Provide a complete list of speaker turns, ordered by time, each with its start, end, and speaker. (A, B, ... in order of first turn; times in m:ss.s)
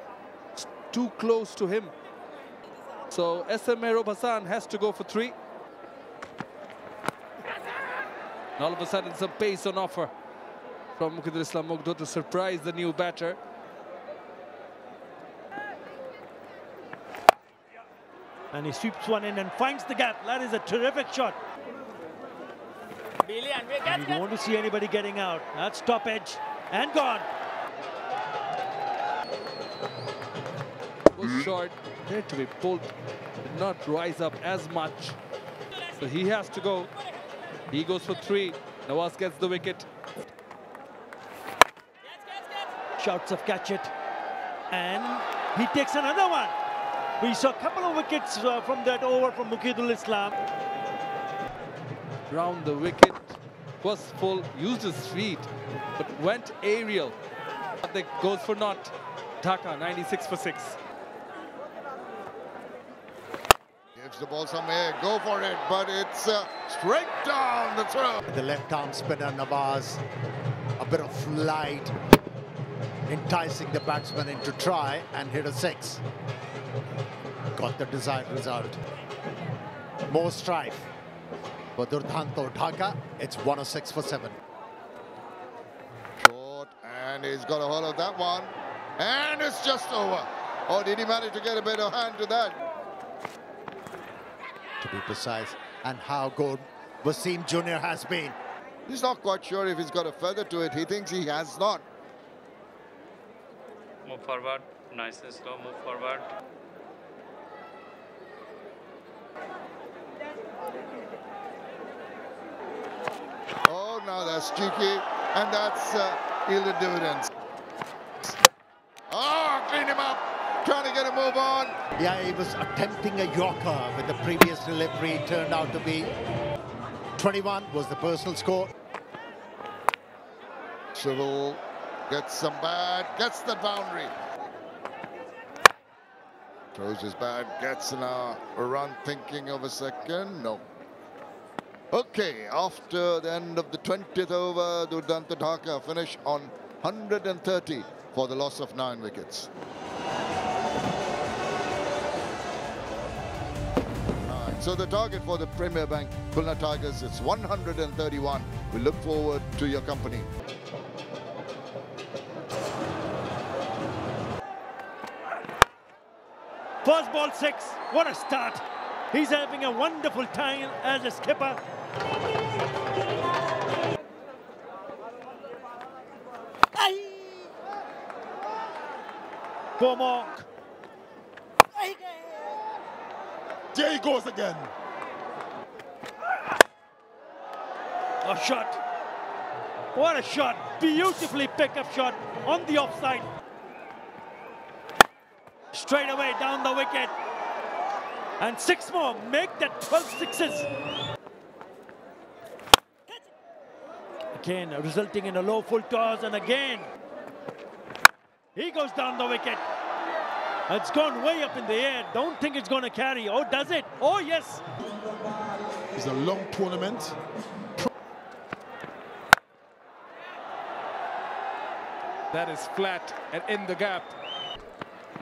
0:00.6-0:01.9 A
0:03.1-0:05.3 A
0:08.6-0:10.1 A
0:11.0-0:13.4 A
0:18.5-0:21.4 B
0:23.7-0:27.3 B
0:31.1-0:35.2 A
0:36.0-0:36.9 A
0:37.7-0:39.9 A
0:43.0-0:43.9 B
0:44.7-0:46.5 B
0:47.2-0:50.4 B
0:52.3-0:57.1 A
0:57.8-1:00.8 A
1:03.9-1:08.2 C
1:08.3-1:10.0 D
1:10.8-1:11.9 D
1:13.1-1:16.0 D
1:17.5-1:18.8 D
1:20.1-1:20.8 D
1:21.8-1:24.4 D
1:26.2-1:32.6 C
1:34.8-1:38.4 D
1:38.9-1:41.8 C
1:44.0-1:46.3 E
1:53.7-1:57.3 C
1:59.1-2:01.8 C
2:02.0-2:06.1 D
2:07.2-2:08.7 D
2:10.9-2:14.1 C
2:16.7-2:20.6 C
2:21.9-2:29.5 C
2:34.2-2:40.3 C
2:46.8-2:51.6 B
2:56.8-2:57.5 B
2:59.8-3:00.5 B
3:01.8-3:02.4 B
3:03.7-3:04.7 F
3:08.2-3:08.8 B
3:09.9-3:13.3 B
3:15.7-3:17.1 B
3:18.4-3:20.7 B
3:24.3-3:26.9 B
3:28.5-3:29.6 B
3:30.7-3:34.6 B
3:35.9-3:37.2 F
3:42.3-3:44.1 A